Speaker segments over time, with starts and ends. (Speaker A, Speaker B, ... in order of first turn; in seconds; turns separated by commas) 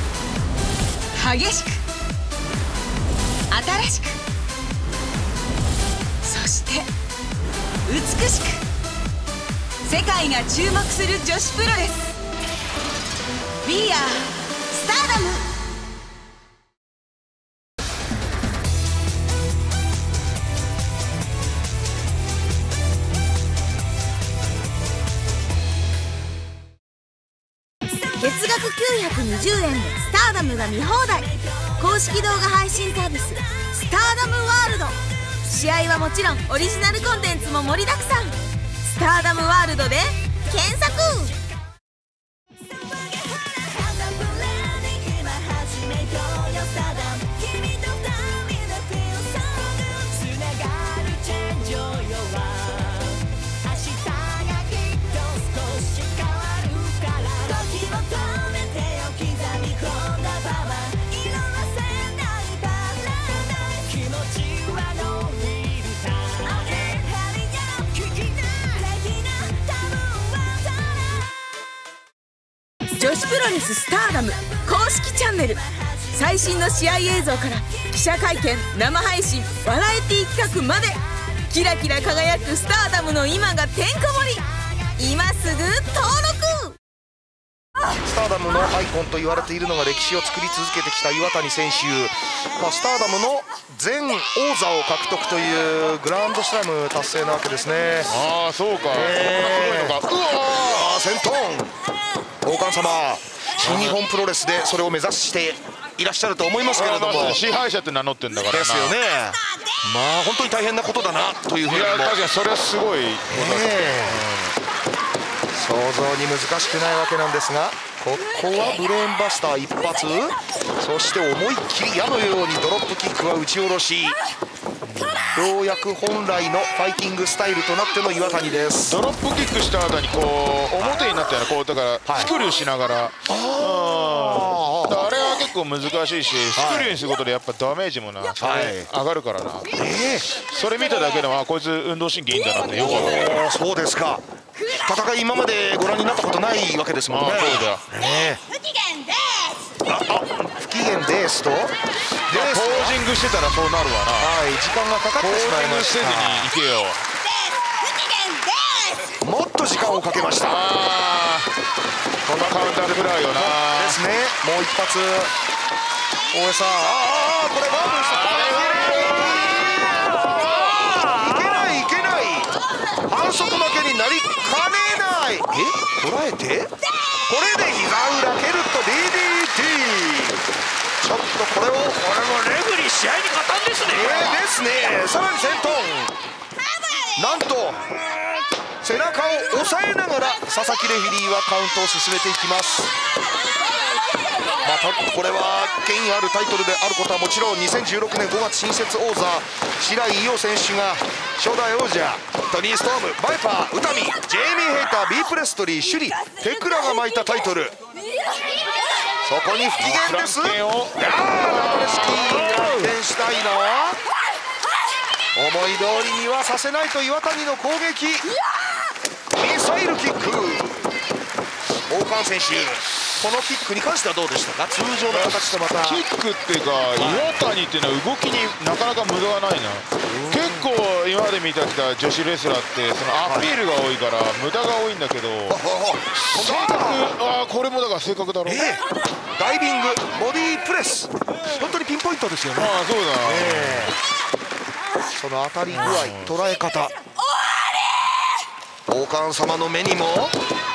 Speaker A: 1.1-1.8, Speaker A: 3.5-4.2, Speaker A: 6.2-6.9, Speaker A: 7.8-8.6, Speaker A: 9.8-11.9, Speaker A: 13.6-15.5, Speaker A: 28.2-41.4, Speaker A: 72.9-84.4, Speaker A: 85.0-86.8, Speaker B: 88.0-98.1, Speaker C: 98.1-100.9, Speaker B: 98.9-101.7, Speaker B: 102.4-107.4, Speaker C: 103.6-104.0, Speaker C: 106.7-108.9, Speaker B: 108.5-112.2, Speaker C: 111.7-114.5, Speaker B: 113.3-114.2, Speaker B: 115.5-124.2, Speaker C: 124.8-125.3, Speaker B: 125.3-129.0, Speaker C: 128.9-139.7, Speaker B: 132.1-132.3, Speaker B: 133.3-135.1, Speaker B: 136.5-136.9, Speaker B: 138.4-138.9, Speaker B: 139.7-140.3, Speaker C: 140.3-143.4, Speaker B: 142.7-148.4, Speaker C: 147.1-147.8, Speaker B: 149.8-151.7, Speaker B: 152.3-153.0, Speaker C: 152.3-154.3, Speaker B: 154.2-156.5, Speaker C: 155.2-157.0, Speaker B: 159.2-160.6, Speaker C: 160.4-161.5, Speaker B: 162.2-165.3, Speaker C: 162.3-164.0, Speaker B: 166.3-172.5, Speaker C: 168.0-169.4, Speaker D: 170.2-171.6, Speaker B: 173.1-176.7, Speaker B: 177.3-180.4, Speaker B: 181.0-182.0, Speaker D: 182.0-184.4, Speaker B: 183.9-186.1, Speaker B: 187.1-187.8, Speaker B: 188.8-192.9, Speaker B: 194.6-207.8, Speaker B: 209.2-214.0, Speaker C: 209.8-212.5, Speaker D: 212.2-212.9, Speaker B: 215.3-218.3, Speaker B: 219.3-220.9, Speaker B: 221.9-226.0, Speaker C: 225.1-235.6, Speaker B: 226.9-227.4, Speaker B: 230.0-230.7, Speaker B: 233.2-233.5, Speaker B: 235.5-237.1, Speaker C: 236.1-238.7, Speaker B: 238.4-238.8, Speaker B: 239.4-243.9, Speaker C: 242.6-243.9, Speaker B: 245.1-246.9, Speaker C: 245.7-246.3, Speaker B: 248.9-250.3